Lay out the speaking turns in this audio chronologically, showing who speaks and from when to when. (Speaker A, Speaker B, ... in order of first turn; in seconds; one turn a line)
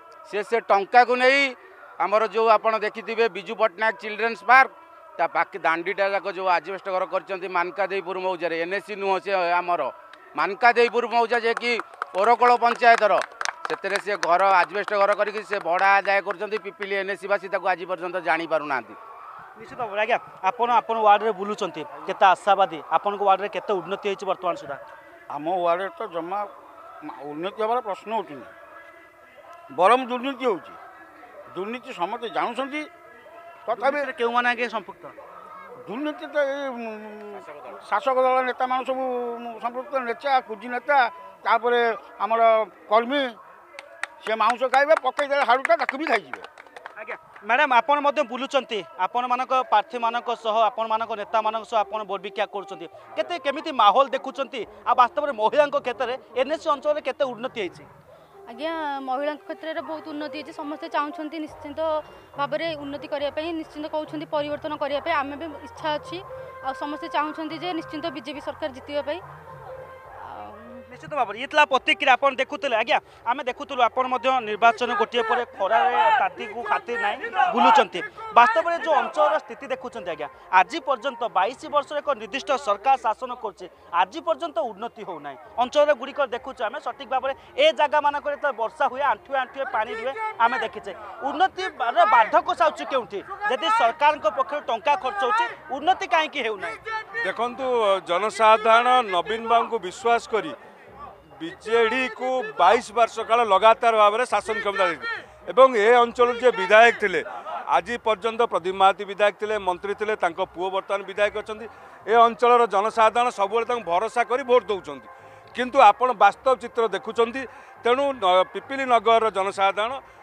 Speaker A: 0.3-19.0
Speaker B: 19.6-24.8
Speaker C: 25.3-26.5
Speaker C: 27.0-28.5
Speaker C: 29.7-30.8
Speaker C: 31.5-32.9
Speaker C: 33.6-34.1
Speaker B: 33.7-35.1
Speaker C: 35.8-43.4
Speaker C: 44.2-46.5
Speaker B: 47.0-57.9
Speaker D: 58.5-69.2
Speaker D: 70.2-70.8
Speaker B: 70.9-96.8
Speaker E: 97.2-100.6
Speaker E: 101.4-120.0